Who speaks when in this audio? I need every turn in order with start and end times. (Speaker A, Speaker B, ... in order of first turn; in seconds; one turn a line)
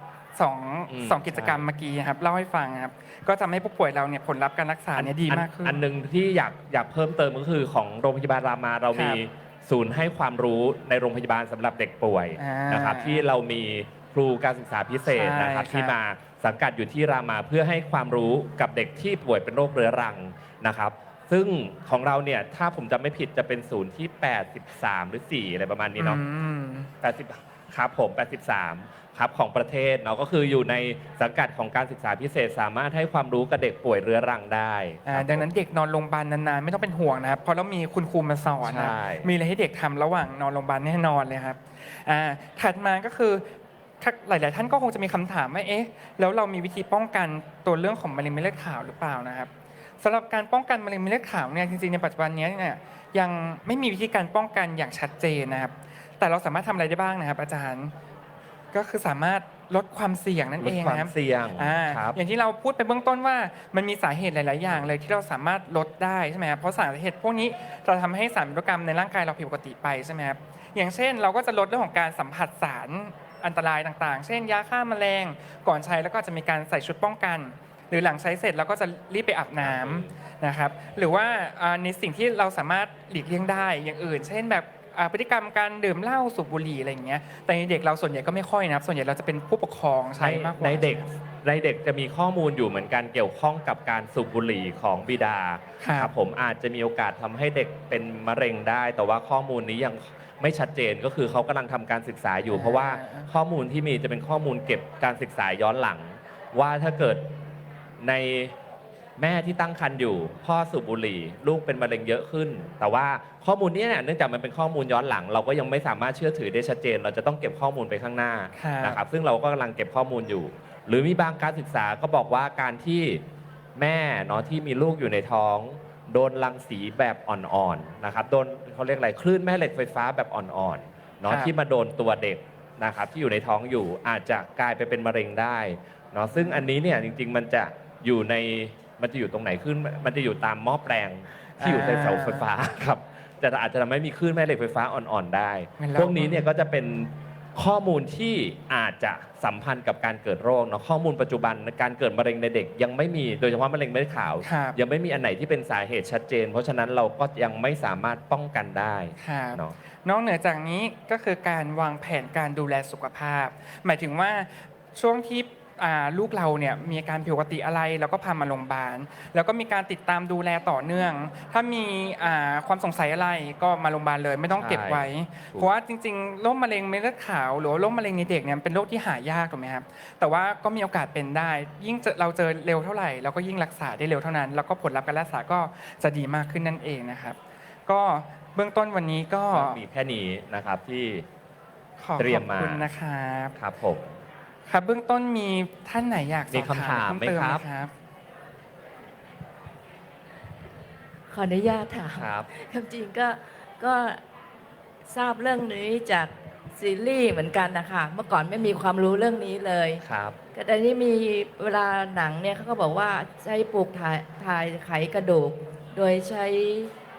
Speaker A: 0.3-5.8
Speaker B: 0.9-1.6
Speaker B: 4.9-26.2
Speaker A: 8.9-9.2
Speaker A: 12.4-13.2
Speaker A: 15.1-15.9
Speaker A: 26.0-26.9
Speaker B: 27.0-35.5
Speaker A: 35.1-49.5
Speaker B: 38.6-39.3
Speaker A: 50.0-57.9
Speaker A: 58.7-91.1
Speaker B: 60.6-62.2
Speaker B: 79.6-80.1
Speaker B: 90.2-107.4
Speaker A: 95.8-96.1
Speaker A: 102.5-103.3
Speaker B: 108.0-108.5
Speaker B: 109.2-123.2
Speaker A: 118.6-119.0
Speaker B: 123.8-159.8
Speaker A: 141.6-142.5
Speaker A: 145.8-146.4
Speaker A: 154.4-154.8
Speaker A: 159.2-189.8
Speaker B: 174.6-175.7
Speaker B: 189.5-191.3
Speaker A: 192.0-193.6
Speaker B: 192.2-192.9
Speaker B: 193.6-194.2
Speaker A: 194.7-197.9
Speaker B: 196.5-197.7
Speaker C: 201.3-204.2
Speaker B: 202.2-202.5
Speaker C: 205.1-210.0
Speaker B: 210.0-210.4
Speaker C: 210.5-216.9